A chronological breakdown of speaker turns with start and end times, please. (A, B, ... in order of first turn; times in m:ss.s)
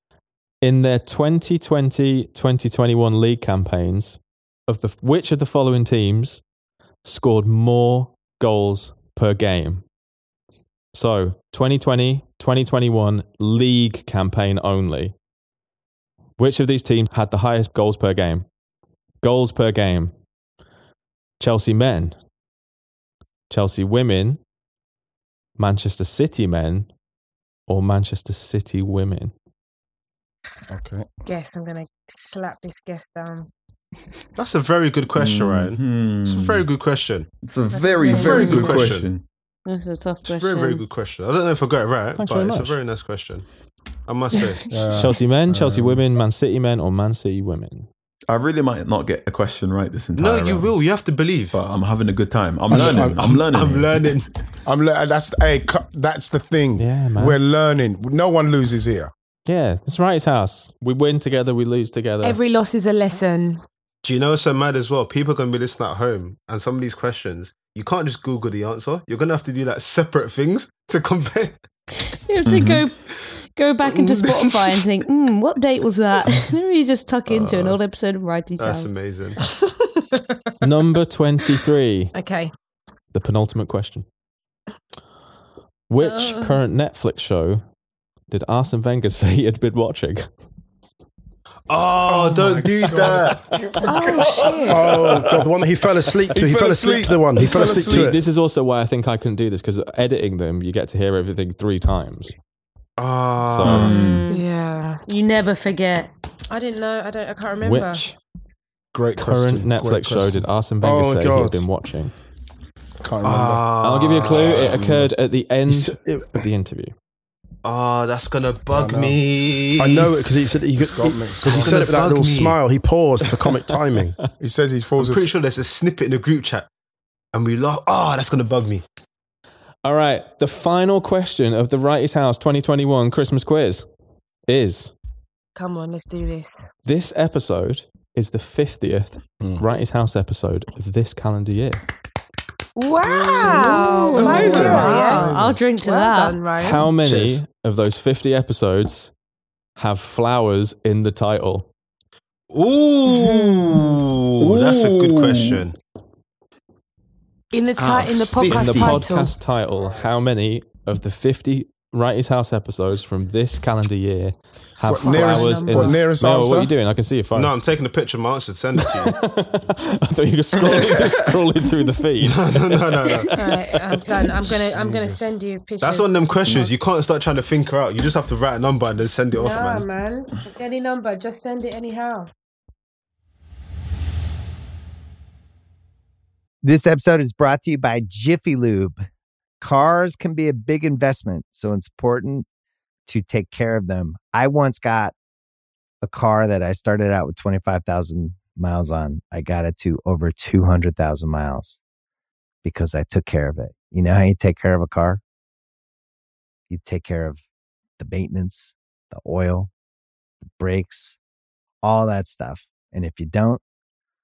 0:00.6-0:06.4 A
0:07.0-0:09.8 A
0:10.9-0:15.1 A
0:16.4-0:18.4 A
0:19.2-0:20.1 A
0:21.4-0:22.1 A
0:23.5-0:24.4 A
0:25.6-0:26.9 A
0:27.7-0:29.3 A
0:30.7-0:31.1 B
0:31.2-0:33.5 C
0:34.4-0:37.3 D
0:35.1-0:36.7 E
0:37.4-0:39.2 E
0:37.7-0:38.9 C
0:38.0-0:38.4 F
0:38.1-0:39.1 D
0:39.6-0:40.8 F
0:40.2-0:43.4 D
0:42.2-0:42.8 A
0:44.1-0:44.6 D
0:44.7-0:46.0 B
0:45.0-0:47.9 A
0:48.3-0:50.7 E
0:50.2-0:51.6 D
0:51.5-0:54.1 E
0:52.7-0:53.4 G
0:52.7-0:54.3 D
0:54.6-0:59.1 B
0:56.8-0:57.4 A
0:59.4-1:02.4 A
1:02.2-1:03.6 C
1:04.0-1:11.6 D
1:12.2-1:18.9 F
1:12.4-1:12.8 E
1:17.3-1:17.8 D
1:18.6-1:19.4 D
1:19.7-1:20.4 C
1:20.6-1:22.1 A
1:22.1-1:22.5 C
1:23.1-1:24.0 A
1:25.9-1:27.6 A
1:26.0-1:26.6 C
1:28.3-1:30.3 A
1:31.7-1:33.5 D
1:32.0-1:35.2 B
1:33.8-1:34.9 C
1:34.7-1:38.2 G
1:36.3-1:38.2 B
1:37.8-1:42.3 A
1:43.0-1:44.0 D
1:43.4-1:43.9 A
1:43.6-1:44.3 E
1:43.9-1:44.4 F
1:44.3-1:45.0 C
1:45.0-1:46.1 F
1:46.5-1:48.0 C
1:47.6-1:48.2 A
1:48.9-1:50.4 B
1:49.2-1:52.1 A
1:50.8-1:51.6 G
1:53.0-1:53.7 B
1:53.2-1:55.0 D
1:53.8-1:56.9 A
1:55.7-1:56.4 G
1:57.6-2:00.2 D
1:58.7-1:59.2 B
1:59.8-2:04.3 G
2:00.8-2:01.9 B
2:01.4-2:02.6 D
2:04.4-2:05.3 B
2:05.0-2:06.7 D
2:07.3-2:08.8 D
2:09.8-2:13.9 A
2:14.5-2:14.9 A
2:15.6-2:16.7 C
2:16.8-2:21.8 A
2:22.8-2:26.9 C
2:23.4-2:25.7 B
2:23.5-2:26.4 F
2:24.2-2:25.0 E
2:26.6-2:29.1 A
2:29.8-2:31.7 A
2:32.5-2:35.8 D
2:33.0-2:35.6 E
2:37.5-2:39.3 C
2:37.8-2:39.0 E
2:38.5-2:47.5 A
2:44.8-2:46.7 B
2:45.0-2:46.1 C
2:47.3-2:49.1 D
2:48.8-2:54.0 A
2:52.2-2:53.3 D
2:53.4-2:56.2 C
2:54.7-2:55.3 B
2:55.8-2:59.8 D
2:59.3-3:02.3 C
3:06.6-3:09.0 H
3:09.6-3:12.4 H
3:13.1-3:15.1 H
3:16.0-3:21.8 H
3:22.6-3:25.2 H
3:26.7-3:27.4 H
3:28.0-3:29.7 H
3:30.4-3:31.2 H
3:31.8-3:33.6 H